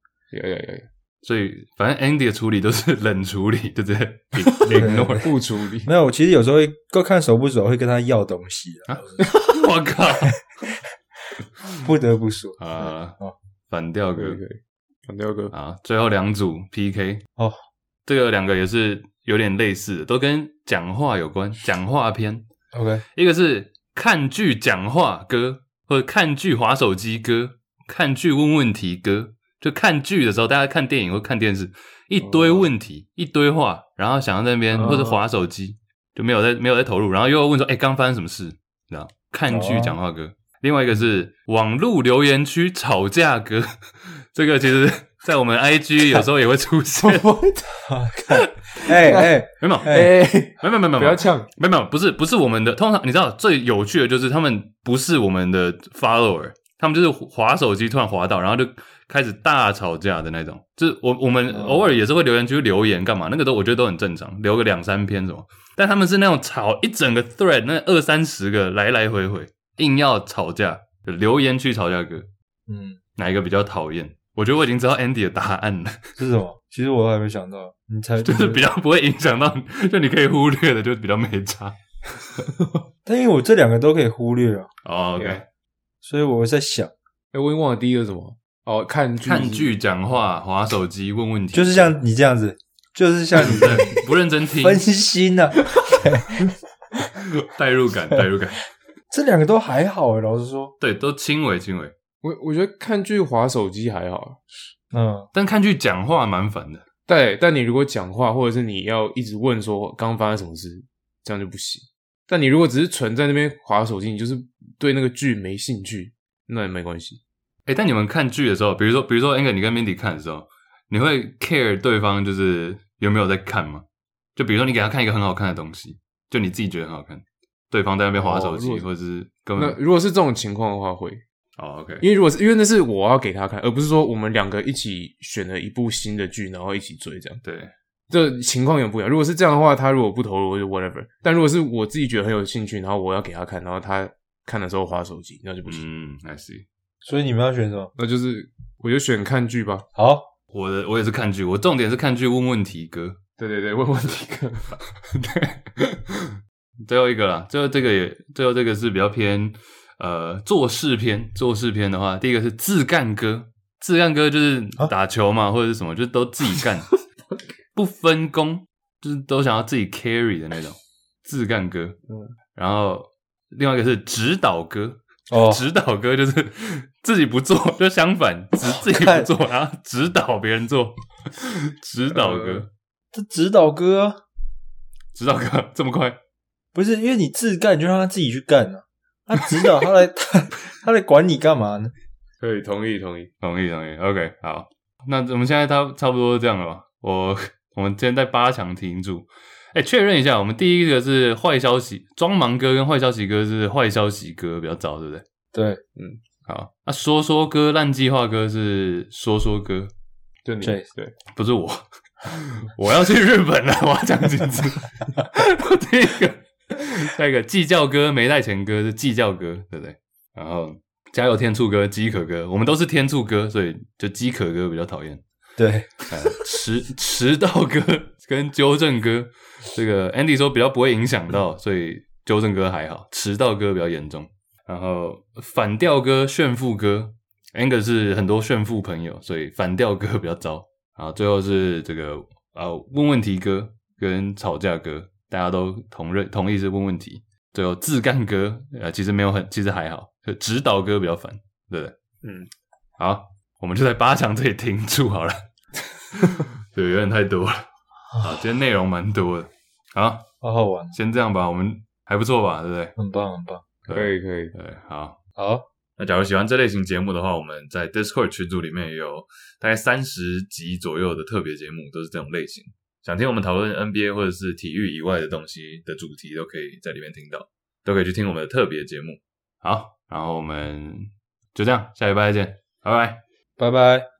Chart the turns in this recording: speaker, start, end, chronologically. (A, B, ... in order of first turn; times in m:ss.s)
0:00.3-0:00.8 A
0:01.2-0:05.3 B
0:04.5-0:05.9 A
0:04.7-0:05.2 C
0:05.8-0:09.3 C
0:08.9-0:10.4 B
0:09.2-0:09.5 A
0:11.8-0:13.3 C
0:12.6-0:13.2 B
0:13.7-0:14.4 B
0:14.2-0:15.5 A
0:15.5-0:17.2 B
0:18.0-0:22.4 B
0:22.7-0:23.0 C
0:23.1-0:47.2 B
0:32.4-0:32.7 A
0:34.7-0:35.2 A
0:39.5-0:40.0 C
0:47.0-0:47.8 A
0:47.8-0:50.1 C
0:48.8-0:51.5 A
0:49.6-1:12.3 B
1:01.5-1:02.0 C
1:12.7-1:13.0 C
1:13.2-1:15.9 B
1:16.2-1:18.7 C
1:18.2-1:22.4 B
1:23.0-1:24.7 C
1:24.8-1:25.4 B
1:25.2-1:25.4 A
1:26.0-1:26.9 C
1:27.3-1:29.8 A
1:29.2-1:32.0 B
1:31.5-1:36.5 C
1:33.4-1:34.8 B
1:37.4-1:38.6 B
1:39.1-1:40.7 C
1:40.8-1:41.9 B
1:42.2-1:44.4 A
1:44.9-1:45.3 C
1:45.3-1:46.8 B
1:47.1-1:57.2 A
1:57.6-2:03.8 B
2:04.4-2:09.8 B
2:08.1-2:08.8 A
2:09.6-2:11.2 A
2:11.6-2:12.0 B
2:12.0-2:17.4 A
2:17.4-2:17.7 B
2:18.1-2:25.8 A
2:25.6-2:26.6 B
2:27.0-2:27.9 C
2:28.0-2:29.8 A
2:30.0-2:30.2 C
2:30.5-2:33.2 B
2:33.4-2:34.7 A
2:34.8-2:46.9 B
2:47.7-2:52.0 B
2:52.5-3:02.7 B
2:55.3-2:55.6 C
2:58.6-2:59.3 C
3:02.1-3:02.6 A
3:03.1-3:04.2 C
3:05.1-3:06.2 B
3:06.7-3:11.9 C
3:12.4-3:13.3 A
3:13.4-3:25.2 B
3:25.5-3:25.8 C
3:26.4-3:29.9 B
3:30.4-3:31.1 A
3:30.6-3:30.9 C
3:31.3-3:45.2 B
3:45.6-3:46.1 C
3:46.1-4:12.0 B
4:12.2-4:12.5 A
4:13.0-4:15.4 B
4:16.2-4:20.2 B
4:20.4-4:21.0 C
4:20.9-4:22.9 B
4:23.0-4:23.7 C
4:23.9-4:25.2 B
4:23.9-4:24.5 A
4:25.4-4:25.6 C
4:26.0-4:43.2 B
4:43.6-4:44.1 C